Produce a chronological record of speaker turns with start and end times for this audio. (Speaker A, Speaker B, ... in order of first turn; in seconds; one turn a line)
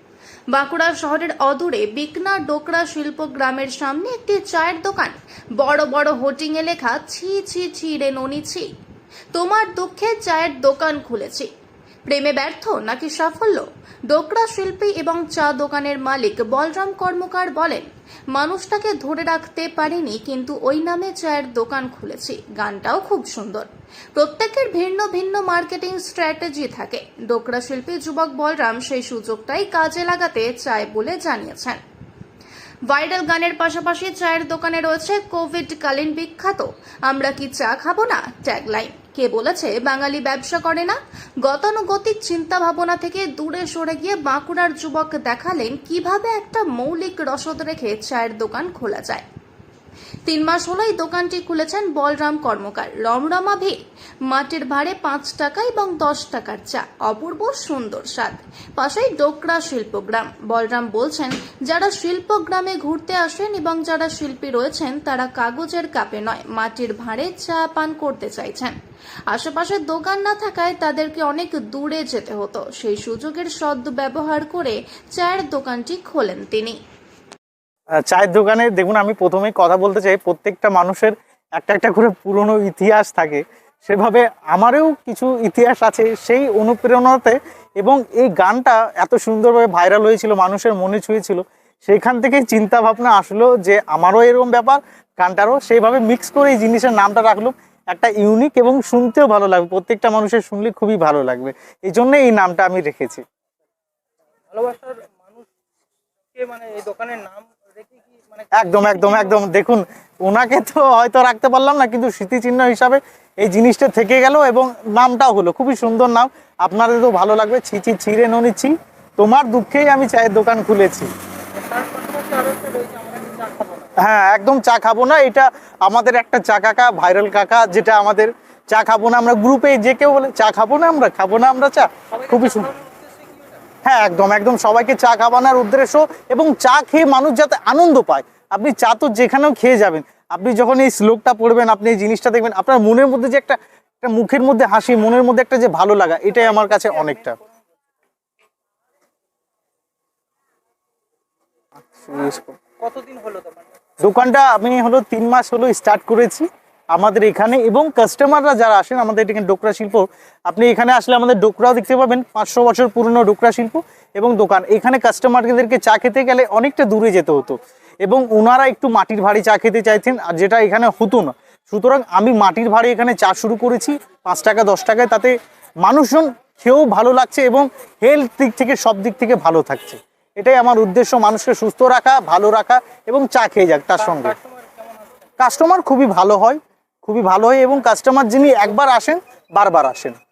Speaker A: 0.5-8.7
Speaker A: 9.3-11.5
Speaker A: 12.1-31.8
Speaker A: 32.9-49.2
Speaker A: 50.3-53.8
Speaker A: 54.3-68.7
Speaker A: 69.3-76.8
Speaker B: 78.0-103.2
Speaker C: 104.5-105.5
Speaker C: 106.3-109.3
Speaker B: 108.5-121.1
Speaker C: 121.5-123.9
Speaker B: 124.0-132.7
Speaker C: 132.1-133.6
Speaker B: 133.8-147.4
Speaker C: 146.3-147.6
Speaker B: 151.8-152.6
Speaker C: 152.8-153.7
Speaker B: 154.0-184.3
Speaker C: 183.9-185.2
Speaker B: 185.4-190.2